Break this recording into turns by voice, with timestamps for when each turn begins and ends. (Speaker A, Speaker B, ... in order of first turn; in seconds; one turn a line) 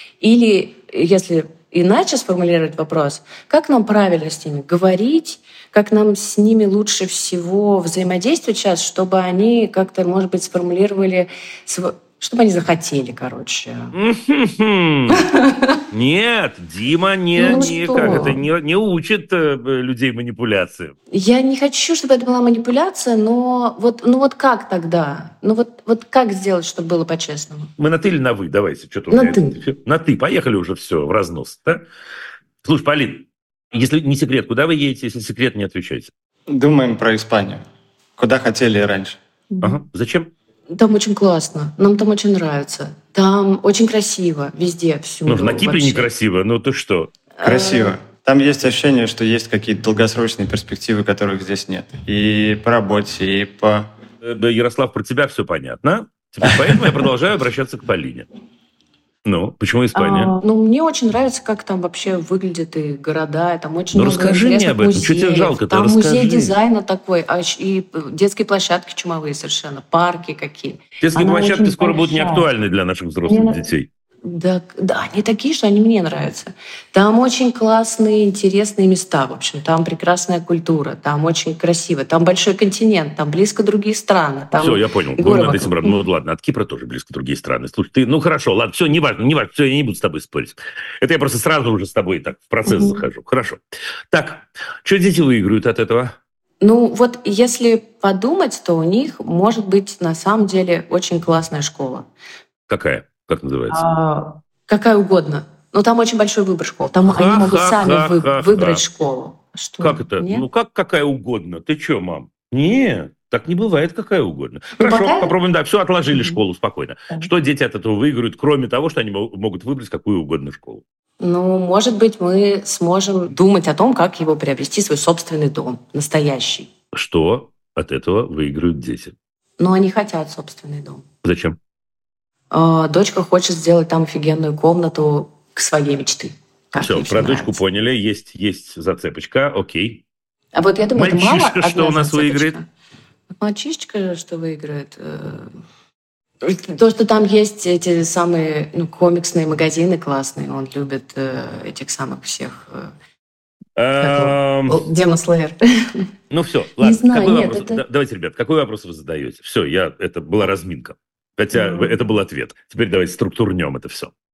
Speaker A: 0.2-13.9
Speaker B: 13.9-15.3
Speaker B: 15.9-20.9
Speaker A: 17.3-18.4
Speaker A: 21.1-27.7
Speaker B: 27.8-31.9
Speaker A: 29.1-29.6
Speaker B: 32.6-36.1
Speaker C: 36.5-37.6
Speaker C: 38.2-39.2
Speaker B: 39.6-40.3
Speaker A: 40.7-46.1
Speaker B: 45.3-47.1
Speaker A: 47.4-48.0
Speaker C: 47.4-53.9
Speaker B: 54.2-58.3
Speaker B: 59.2-60.3
Speaker A: 60.0-72.5
Speaker B: 63.9-66.5
Speaker B: 71.0-73.9
Speaker A: 73.3-73.6
Speaker A: 74.2-86.0
Speaker B: 84.5-96.2
Speaker A: 92.6-93.0
Speaker A: 96.6-102.1
Speaker B: 102.7-103.8
Speaker A: 103.7-110.5
Speaker B: 107.1-108.8
Speaker B: 109.8-120.8
Speaker A: 114.8-115.3
Speaker A: 116.1-116.4
Speaker A: 121.2-126.7
Speaker B: 126.9-129.1
Speaker A: 129.6-131.0
Speaker B: 131.2-131.6
Speaker A: 132.5-137.6
Speaker B: 136.8-140.0
Speaker A: 140.5-142.7
Speaker B: 140.9-142.6
Speaker A: 143.4-145.5
Speaker A: 146.4-152.9
Speaker B: 153.8-154.8
Speaker A: 153.9-155.9
Speaker B: 156.3-164.1
Speaker A: 156.8-157.8
Speaker A: 161.5-162.0